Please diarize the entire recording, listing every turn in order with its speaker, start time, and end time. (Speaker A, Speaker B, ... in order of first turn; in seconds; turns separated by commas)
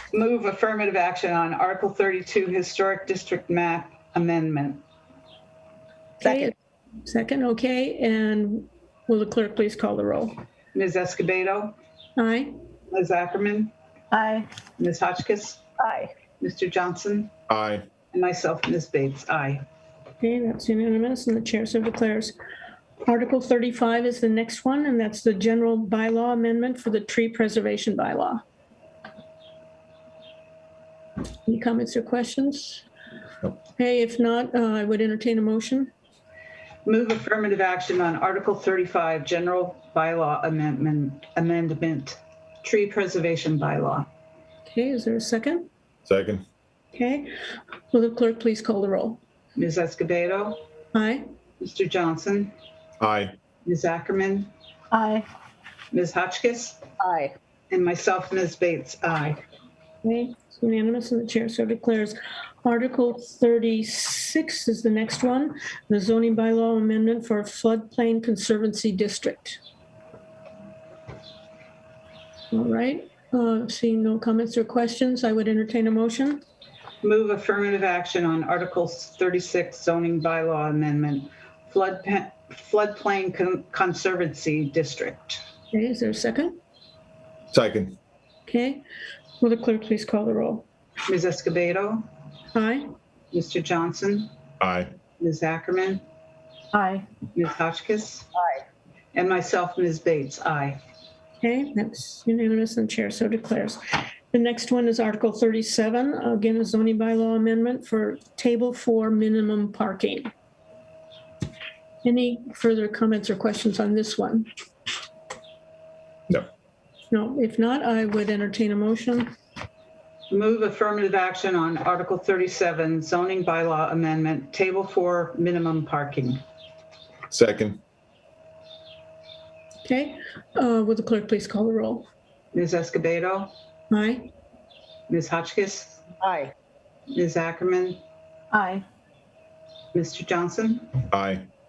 Speaker A: 0.1-4.8, Speaker B: 6.2-6.5, Speaker C: 6.2-6.5, Speaker B: 7.0-10.4, Speaker A: 10.7-11.8, Speaker B: 12.2-12.5, Speaker A: 12.9-13.7, Speaker C: 14.1-14.5, Speaker A: 14.8-15.6, Speaker C: 15.8-16.1, Speaker A: 16.4-17.3, Speaker D: 17.5-17.9, Speaker A: 18.1-19.6, Speaker B: 20.2-22.4, Speaker B: 23.1-28.4, Speaker B: 31.5-32.8, Speaker B: 33.8-35.9, Speaker A: 36.9-44.1, Speaker B: 44.7-45.7, Speaker D: 46.1-46.5, Speaker B: 46.9-47.3, Speaker B: 47.9-49.2, Speaker A: 49.6-50.6, Speaker B: 50.9-51.2, Speaker A: 51.6-52.5, Speaker D: 53.0-53.4, Speaker A: 53.7-54.5, Speaker C: 54.9-55.3, Speaker A: 55.9-56.8, Speaker C: 57.0-57.3, Speaker A: 57.7-59.4, Speaker B: 60.0-69.6, Speaker B: 72.5-76.4, Speaker A: 77.0-85.4, Speaker B: 85.7-86.5, Speaker D: 87.5-88.0, Speaker B: 88.5-88.8, Speaker B: 89.4-90.7, Speaker A: 91.1-92.1, Speaker B: 92.5-92.8, Speaker A: 93.3-94.3, Speaker D: 94.6-95.0, Speaker A: 95.2-96.0, Speaker C: 96.7-97.0, Speaker A: 97.3-98.3, Speaker A: 99.1-100.8, Speaker B: 101.4-110.3, Speaker B: 112.0-114.5, Speaker B: 117.1-119.3, Speaker A: 120.3-126.4, Speaker D: 127.3-127.8, Speaker B: 129.8-132.1, Speaker A: 132.5-133.5, Speaker B: 133.9-134.2, Speaker A: 135.1-136.0, Speaker C: 136.2-136.5, Speaker A: 137.1-138.0, Speaker C: 138.5-138.8, Speaker A: 139.9-141.0, Speaker D: 141.1-141.5